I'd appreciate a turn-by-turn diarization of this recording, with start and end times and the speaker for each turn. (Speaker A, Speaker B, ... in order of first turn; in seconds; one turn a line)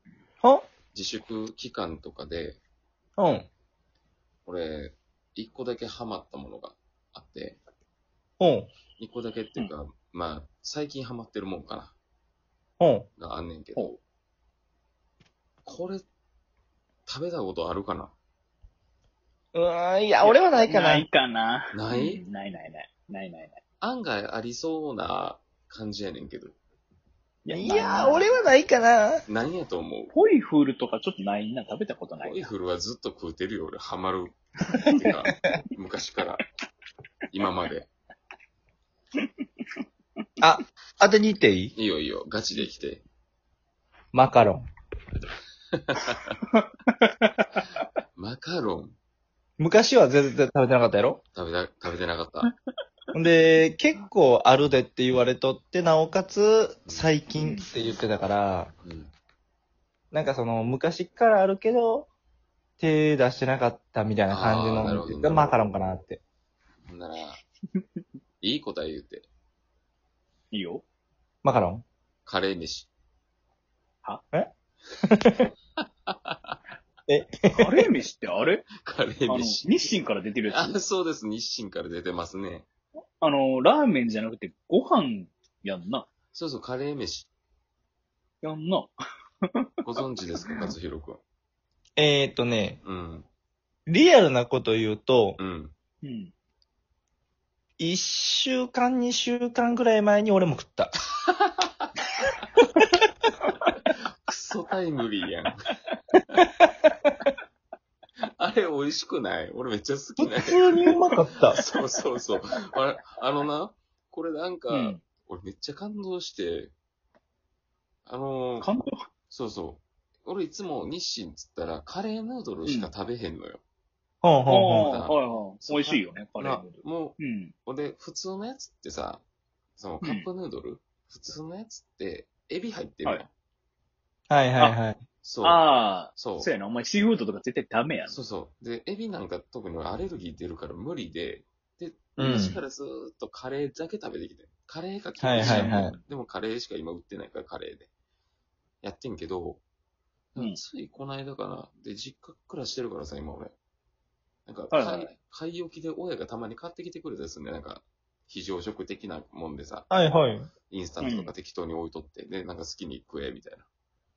Speaker A: 0.9-2.6
Speaker B: 3.2-3.5
Speaker A: 4.5-7.6
Speaker B: 8.4-8.7
Speaker A: 9.0-11.9
Speaker B: 12.8-13.1
Speaker A: 13.2-13.9
Speaker A: 15.6-16.0
Speaker A: 17.1-18.1
Speaker B: 19.5-21.1
Speaker C: 20.2-23.6
Speaker A: 21.7-22.2
Speaker A: 23.8-26.6
Speaker C: 27.4-28.4
Speaker B: 27.5-29.2
Speaker A: 29.3-30.1
Speaker C: 30.1-32.5
Speaker A: 32.2-36.4
Speaker A: 37.3-37.9
Speaker B: 40.4-41.7
Speaker A: 41.8-43.0
Speaker B: 44.1-44.6
Speaker A: 45.8-46.4
Speaker C: 46.5-47.4
Speaker A: 48.1-48.9
Speaker B: 49.6-51.2
Speaker A: 51.3-52.5
Speaker B: 53.1-58.7
Speaker C: 57.4-57.6
Speaker A: 58.8-59.1
Speaker B: 60.1-62.1
Speaker B: 62.8-66.2
Speaker A: 64.3-65.6
Speaker C: 64.8-65.0
Speaker A: 66.9-67.4
Speaker A: 68.4-69.3
Speaker C: 70.5-70.8
Speaker B: 71.4-71.8
Speaker A: 72.2-72.9
Speaker B: 75.1-75.5
Speaker A: 75.8-76.6
Speaker B: 77.1-77.9
Speaker C: 77.5-78.7
Speaker A: 78.7-80.0
Speaker C: 79.3-80.8
Speaker A: 80.5-82.7
Speaker C: 83.2-86.1
Speaker A: 86.3-87.3
Speaker C: 88.4-88.9
Speaker A: 89.8-91.2
Speaker C: 90.4-90.7
Speaker B: 92.0-92.8
Speaker A: 92.8-93.2
Speaker B: 93.9-95.4
Speaker A: 95.4-95.7
Speaker C: 96.0-96.3
Speaker B: 97.8-100.9
Speaker A: 101.5-101.9
Speaker A: 104.2-105.6
Speaker A: 108.4-110.9
Speaker B: 110.2-111.6
Speaker A: 111.5-116.7
Speaker C: 114.7-115.0
Speaker A: 118.0-118.7
Speaker C: 118.6-118.9
Speaker A: 119.3-123.6
Speaker B: 124.2-124.9
Speaker C: 124.5-127.5
Speaker A: 124.8-129.2
Speaker A: 129.8-133.3
Speaker B: 134.3-135.0
Speaker A: 135.2-135.6
Speaker C: 135.4-138.2
Speaker A: 136.2-136.5
Speaker A: 138.1-147.9
Speaker B: 142.2-142.6
Speaker B: 145.2-146.0
Speaker C: 145.4-145.9
Speaker A: 148.8-149.6
Speaker A: 150.3-153.5
Speaker A: 154.4-160.0
Speaker C: 154.7-155.1
Speaker B: 159.9-160.5
Speaker A: 160.7-163.7
Speaker C: 161.0-161.3